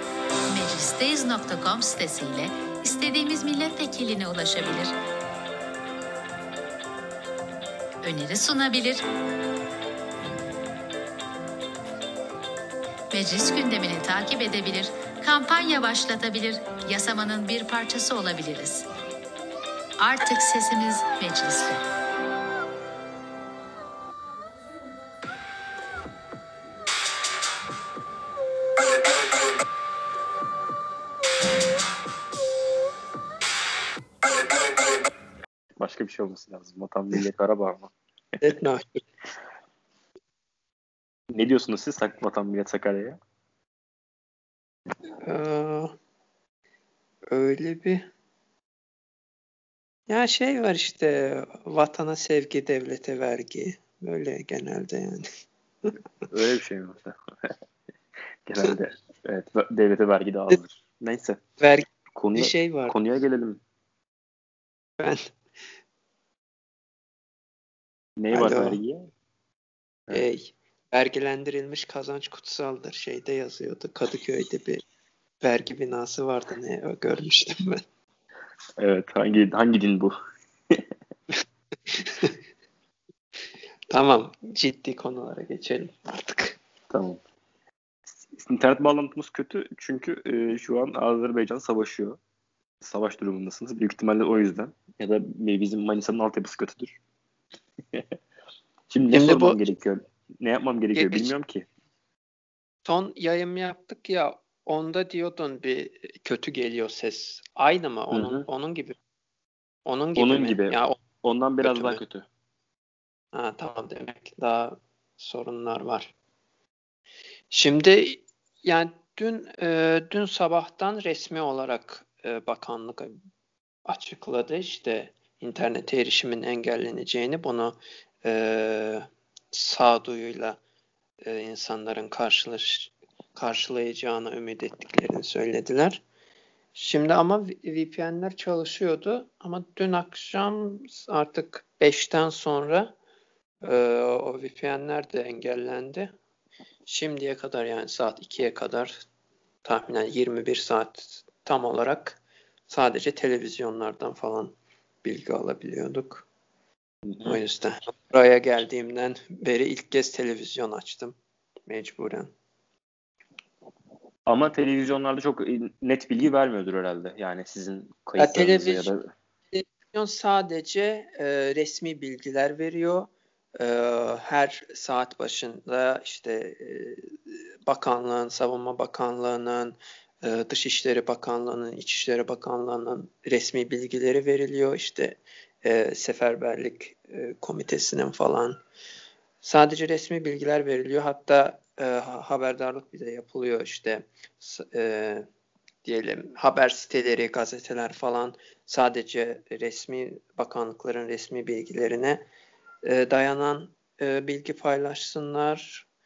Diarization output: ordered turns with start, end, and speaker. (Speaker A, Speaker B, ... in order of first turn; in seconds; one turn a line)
Speaker A: 0.5-5.0
Speaker A: 8.0-9.0
Speaker A: 13.1-18.9
Speaker A: 20.0-21.8
Speaker B: 35.8-37.9
Speaker C: 38.4-39.0
Speaker B: 41.3-43.2
Speaker C: 45.2-45.9
Speaker C: 47.3-48.1
Speaker C: 50.1-55.3
Speaker B: 56.3-57.1
Speaker B: 58.5-61.4
Speaker C: 61.6-63.0
Speaker B: 62.1-63.6
Speaker C: 65.0-65.3
Speaker B: 68.2-69.0
Speaker C: 68.3-68.8
Speaker C: 70.1-74.8
Speaker C: 75.4-77.8
Speaker B: 78.8-80.2
Speaker C: 82.0-82.3
Speaker C: 83.9-86.6
Speaker B: 86.9-87.2
Speaker B: 88.3-92.2
Speaker B: 92.8-97.0
Speaker B: 98.9-101.7
Speaker C: 99.1-99.6
Speaker C: 101.0-101.3
Speaker C: 102.8-109.0
Speaker B: 108.1-108.5
Speaker C: 109.9-111.0
Speaker B: 110.2-112.3
Speaker C: 111.6-112.0
Speaker C: 113.3-116.1
Speaker C: 117.5-123.2
Speaker C: 123.9-130.6
Speaker C: 131.2-136.0
Speaker C: 136.7-142.9
Speaker C: 143.6-146.1
Speaker C: 146.9-149.0
Speaker C: 149.6-156.3
Speaker B: 157.1-157.4
Speaker C: 157.2-161.2
Speaker C: 161.7-162.3
Speaker B: 164.3-169.1
Speaker C: 168.2-168.9
Speaker C: 169.5-188.6
Speaker C: 189.4-195.3
Speaker C: 195.8-202.2
Speaker C: 202.8-205.9